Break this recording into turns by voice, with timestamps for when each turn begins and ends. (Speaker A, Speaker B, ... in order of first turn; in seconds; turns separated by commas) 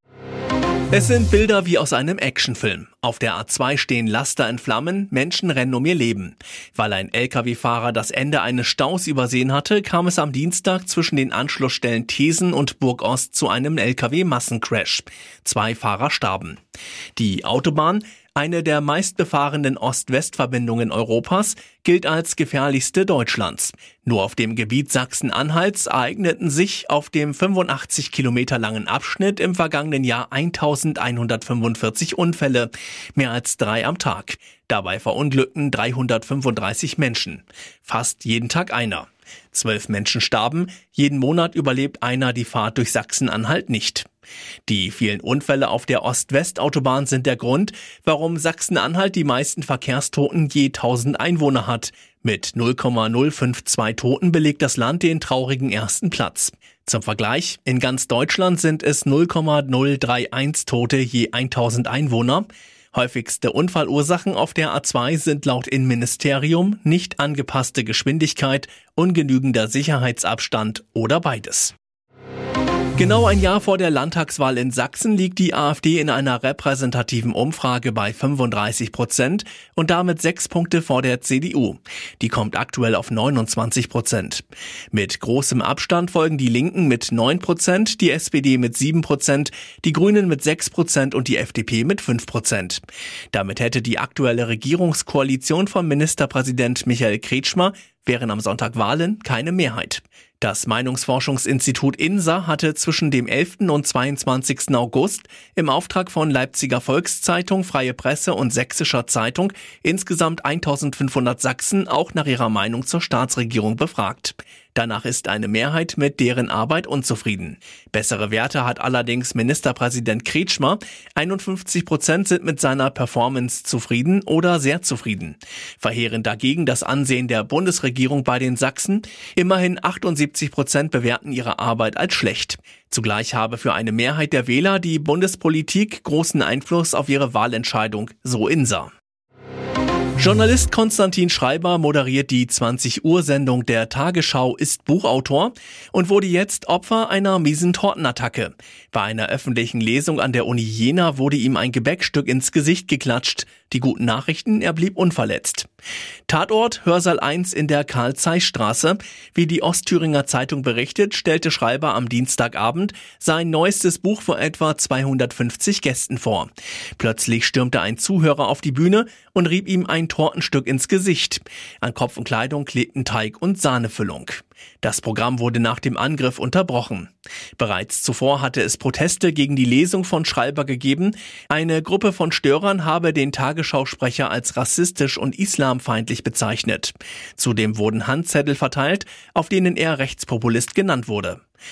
Speaker A: 0.9-16.6, Speaker A: 17.1-44.1, Speaker A: 44.7-71.7, Speaker A: 73.0-138.9, Speaker A: 140.2-155.7, Speaker A: 156.3-191.4